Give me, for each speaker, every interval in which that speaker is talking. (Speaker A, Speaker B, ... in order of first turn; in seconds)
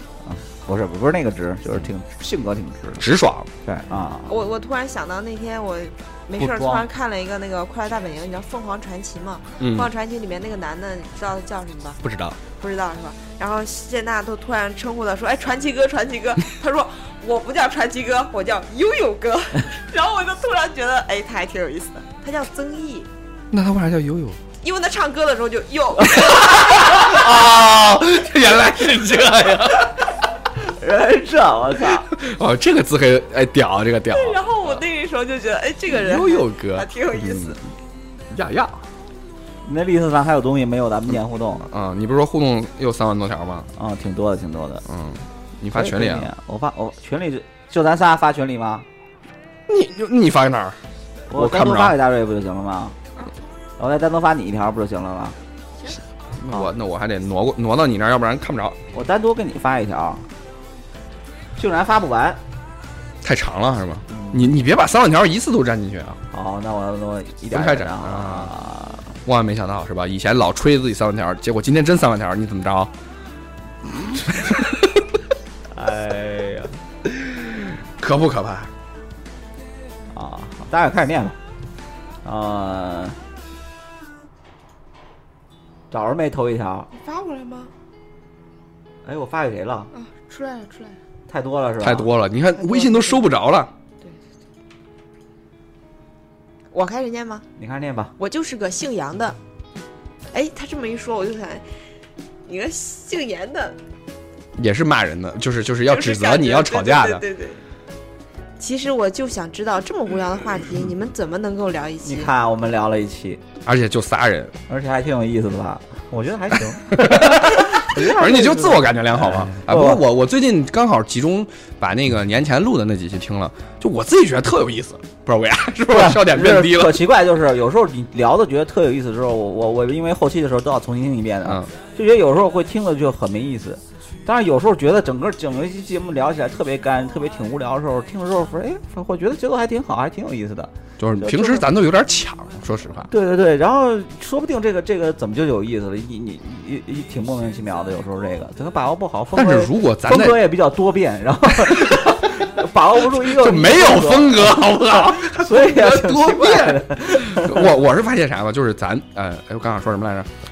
Speaker A: 0.2-3.0, 3.6-4.4, 6.4-6.8, 30.6-32.1, 39.6-41.6, 43.8-44.8, 45.7-48.9, 51.3-53.0, 53.8-55.4, 58.9-60.2, 61.5-62.4, 64.1-64.5, 66.3-69.1, 75.7-76.7, 80.1-81.3, 82.2-83.2, 85.9-86.9, 89.0-89.9, 91.3-92.1, 97.6-98.1, 112.0-113.4, 114.7-120.0, 125.9-141.7, 143.1-157.7
Speaker B: 3.0-3.5, 9.6-9.9, 12.0-12.4, 23.5-24.4, 26.3-30.0, 31.9-34.4, 35.9-37.6, 38.3-38.8, 41.7-43.7, 44.9-46.3, 49.7-50.8, 51.3-52.0, 56.4-58.8, 63.2-66.2, 67.5-68.5, 69.2-72.9, 74.3-75.0, 77.0-78.7, 91.8-93.7, 104.6-107.2, 113.6-114.5, 116.9-127.0, 131.4-131.7, 141.0-143.1, 149.3-150.5, 151.6-152.2, 153.1-160.3
Speaker C: 4.3-12.0, 12.5-23.1, 24.6-27.1, 34.1-37.6, 86.9-87.7, 89.9-91.0, 92.6-93.2, 96.7-97.4, 98.2-99.4, 100.3-101.6, 102.5-103.8, 105.9-107.6, 108.6-112.3